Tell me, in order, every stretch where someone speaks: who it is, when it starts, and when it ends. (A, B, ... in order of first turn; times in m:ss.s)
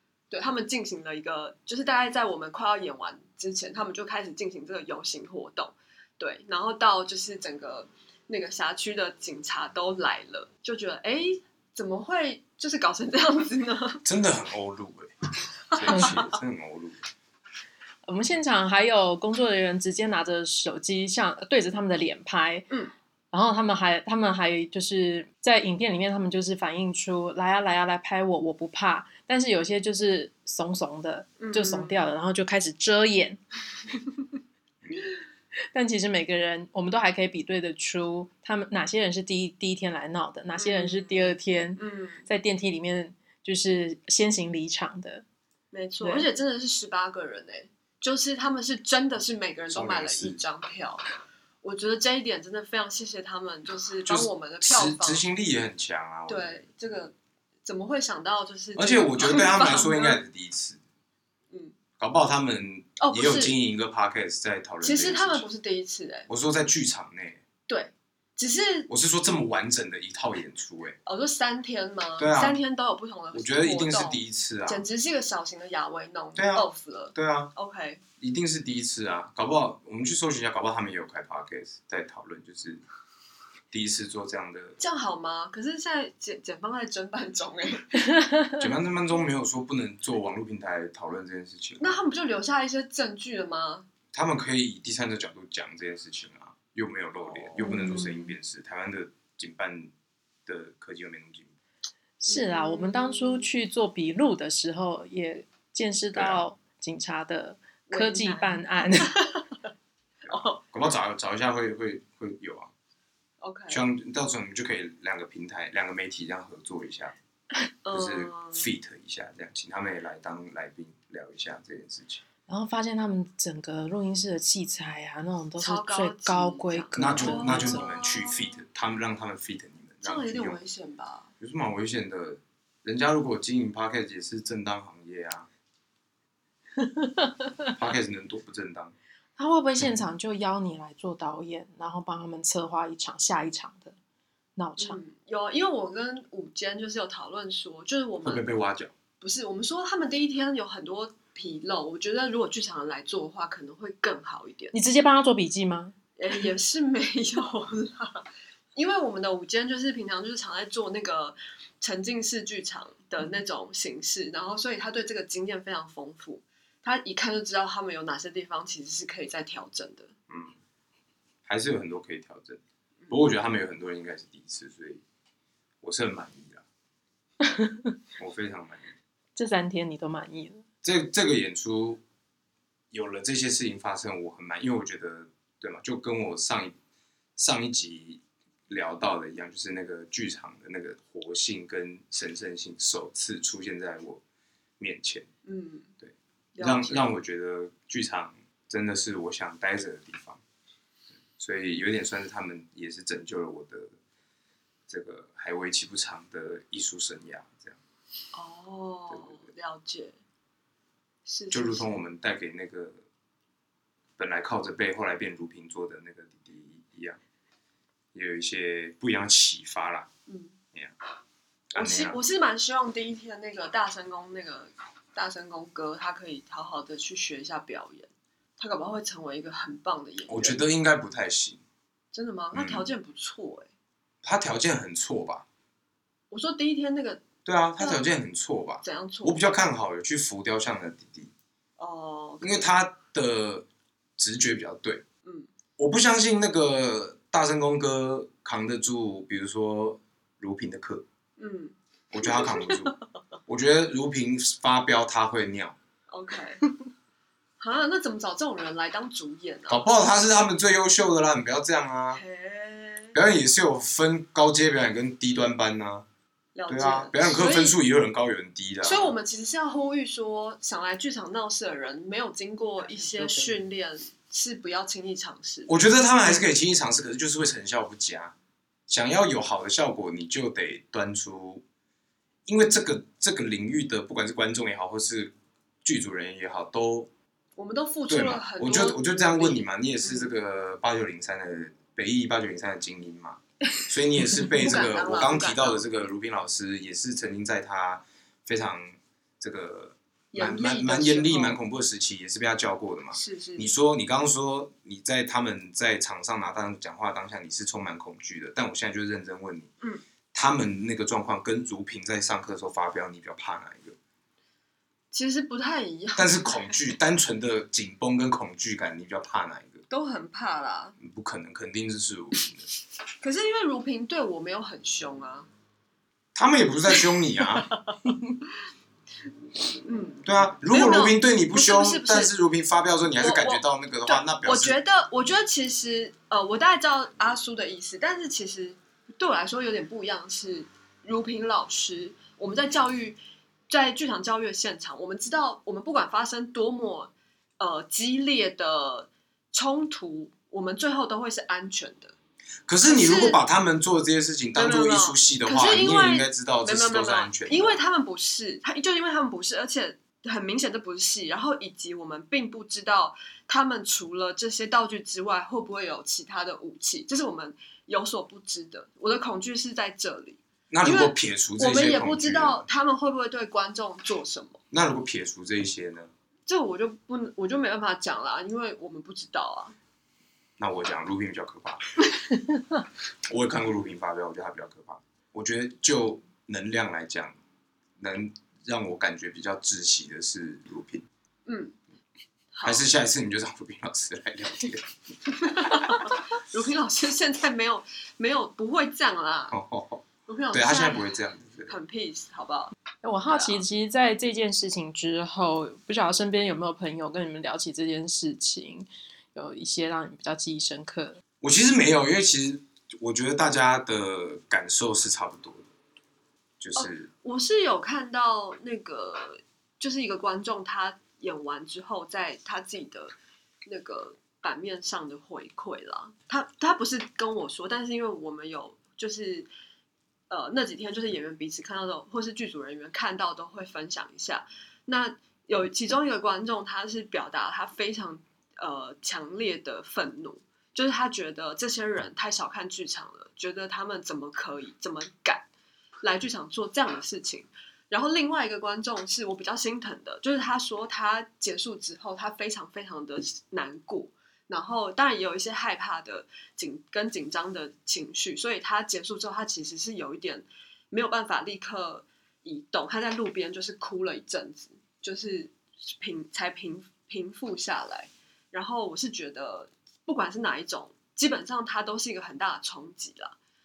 0:00.3-0:14.0 A
0:14.0-0:15.1 B
0:15.7-0:17.0 B
0:15.7-0:16.1 A
0:18.0-0:22.7 C
0:23.3-0:33.4 C
0:31.4-0:32.1 A
0:35.7-0:45.2 C
0:40.6-0:42.2 A
0:45.7-0:51.0 A
0:46.0-0:46.3 C
0:49.7-0:50.4 B
0:51.6-0:55.2 A
0:54.0-0:56.6 B
0:56.3-0:57.1 A
0:57.6-1:00.2 A
0:58.8-1:00.8 B
1:02.0-1:05.4 B
1:03.0-1:03.5 A
1:04.8-1:06.3 A
1:06.3-1:07.4 B
1:07.7-1:08.9 A
1:08.9-1:11.0 B
1:11.0-1:18.0 A
1:12.2-1:12.6 B
1:13.3-1:14.8 B
1:16.4-1:17.5 B
1:18.2-1:22.8 B
1:23.7-1:24.8 B
1:24.8-1:28.0 A
1:28.6-1:31.9 B
1:31.8-1:33.9 A
1:34.1-1:39.9 B
1:37.2-1:38.3 A
1:37.6-1:38.1 C
1:40.4-1:41.5 B
1:42.2-1:49.1 C
1:42.2-1:43.5 A
1:46.1-1:46.4 B
1:47.9-1:49.4 A
1:50.2-1:50.6 A
1:50.2-1:52.7 B
1:53.4-1:53.8 A
1:53.7-1:57.1 B
1:57.8-1:58.7 A
1:57.9-2:02.2 B
2:02.5-2:07.9 C
2:05.6-2:08.6 A
2:06.9-2:10.6 B
2:10.0-2:11.3 A
2:11.4-2:15.5 B
2:16.8-2:17.5 C
2:17.7-2:18.9 B
2:19.4-2:24.0 C
2:24.6-2:25.0 C
2:24.8-2:28.4 A
2:28.2-2:28.9 B
2:29.2-2:34.7 A
2:34.7-2:35.9 C
2:36.2-2:50.1 A
2:50.3-2:50.6 B
2:51.4-2:55.0 B
2:55.8-2:56.6 B
2:57.4-2:57.9 C
2:58.2-2:58.9 B
2:59.4-3:00.6 C
3:00.8-3:02.0 B
3:02.9-3:06.7 B
3:07.4-3:14.2 B
3:14.8-3:15.3 B
3:15.4-3:15.9 A
3:16.0-3:20.4 B
3:16.6-3:17.1 A
3:21.4-3:24.0 B
3:24.9-3:27.8 B
3:28.3-3:30.2 A
3:31.2-3:31.9 A
3:31.5-3:33.0 B
3:34.2-3:37.2 B
3:38.1-3:40.1 B
3:40.3-3:40.6 A
3:41.7-3:42.2 B
3:41.7-3:50.6 A
3:50.3-3:51.6 B
3:52.1-3:53.7 A
3:52.5-3:52.8 B
3:54.2-3:55.4 B
3:56.3-3:57.2 A
3:57.4-4:01.3 B
3:57.8-3:58.0 A
3:58.8-3:59.4 A
4:01.8-4:02.8 A
4:02.4-4:03.7 B
4:04.2-4:05.0 B
4:05.2-4:05.5 A
4:05.8-4:11.0 B
4:11.4-4:13.0 A
4:12.1-4:12.9 B
4:13.5-4:15.8 B
4:16.1-4:16.6 A
4:17.6-4:19.8 A
4:19.7-4:22.2 B
4:22.1-4:23.2 A
4:23.1-4:26.0 B
4:26.5-4:27.8 A
4:26.7-4:29.1 B
4:28.8-4:36.4 A
4:35.7-4:38.3 B
4:38.9-4:41.6 B
4:42.4-4:45.3 B
4:45.8-4:47.1 B
4:47.6-4:50.3 A
4:48.1-5:09.7 B
4:54.5-4:55.8 A
5:00.3-5:01.6 A
5:03.1-5:03.7 A
5:10.3-5:14.0 B
5:15.1-5:16.7 A
5:16.2-5:19.8 B
5:19.9-5:21.0 A
5:21.0-5:22.7 B
5:23.2-5:25.5 A
5:26.3-5:27.7 B
5:29.8-5:32.3 A
5:30.2-5:34.8 B
5:33.2-5:52.1 A
5:52.7-5:57.8 B
5:52.8-5:53.4 A
5:54.5-6:14.6 A
6:10.7-6:12.6 B
6:14.7-6:16.1 B
6:16.5-6:19.7 A
6:20.6-6:21.9 B
6:23.3-6:27.3 B
6:28.0-6:31.0 B
6:31.4-6:31.8 A
6:32.5-6:32.8 A
6:32.6-6:34.9 B
6:35.4-6:39.6 A
6:39.5-6:41.8 B
6:40.3-6:41.1 A
6:41.7-6:42.7 A
6:43.0-6:51.2 C
6:43.3-6:43.6 A
6:51.4-6:55.7 B
6:56.6-6:57.1 B
6:56.8-7:03.1 A
7:03.6-7:09.5 A
7:10.3-7:25.4 A
7:26.0-7:53.4 A